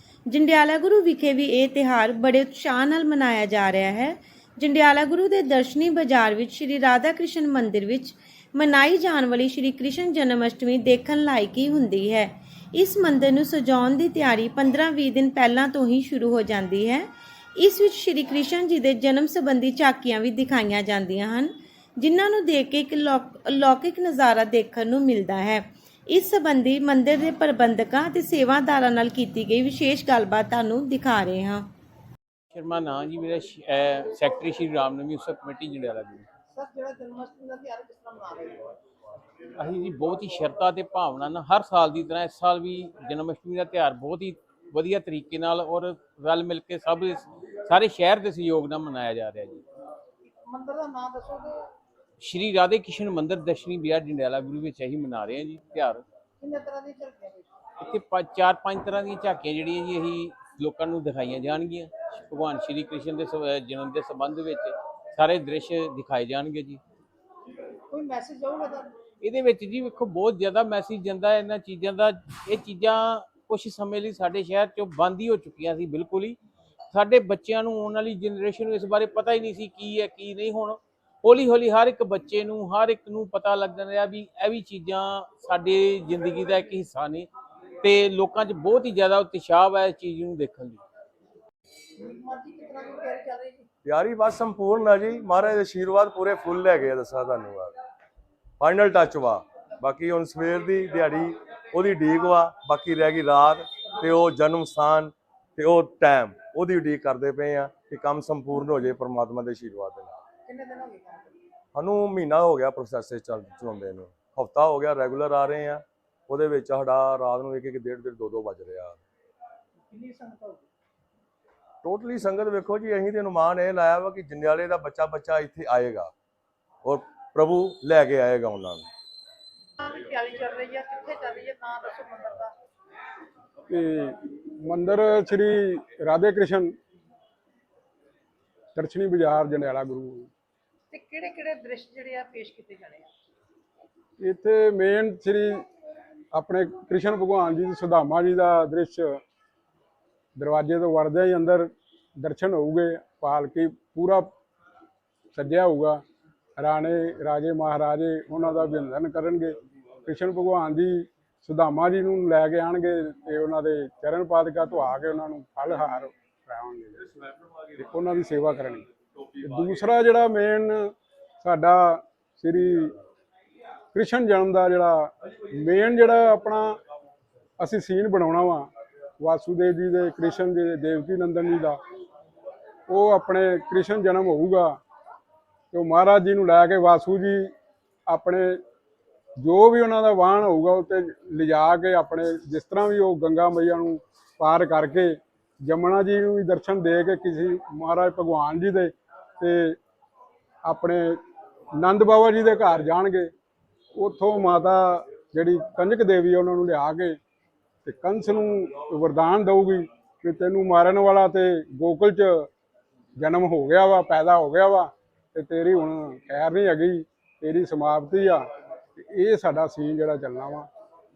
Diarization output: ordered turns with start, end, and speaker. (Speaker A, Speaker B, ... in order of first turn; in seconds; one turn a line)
Speaker A: 0.3-31.7
Speaker B: 32.5-36.3
Speaker C: 36.5-38.7
Speaker B: 39.6-49.6
Speaker C: 50.5-51.6
Speaker B: 52.2-56.0
Speaker C: 56.4-57.5
Speaker B: 57.8-66.8
Speaker C: 67.9-68.9
Speaker B: 69.2-76.4
Speaker B: 76.9-87.3
Speaker B: 87.8-90.8
Speaker C: 92.0-93.7
Speaker D: 93.8-97.8
Speaker D: 98.6-110.2
Speaker C: 110.5-111.4
Speaker D: 111.8-119.0
Speaker C: 119.9-120.7
Speaker D: 121.8-126.1
Speaker D: 126.8-128.9
Speaker C: 129.8-132.5
Speaker E: 133.7-136.8
Speaker E: 138.8-140.3
Speaker C: 140.9-143.1
Speaker E: 144.2-145.7
Speaker E: 146.3-149.2
Speaker E: 150.4-154.3
Speaker E: 155.3-156.0
Speaker E: 156.6-167.1
Speaker E: 167.8-168.9
Speaker E: 169.4-173.0
Speaker E: 173.9-176.8
Speaker E: 177.6-181.8
Speaker E: 182.9-184.8
Speaker E: 185.7-187.5
Speaker E: 188.1-188.6
Speaker E: 189.4-199.8
Speaker E: 200.7-201.2
Speaker E: 201.8-203.3
Speaker E: 203.9-207.2
Speaker E: 207.8-212.5
Speaker E: 213.2-218.4
Speaker E: 219.0-220.7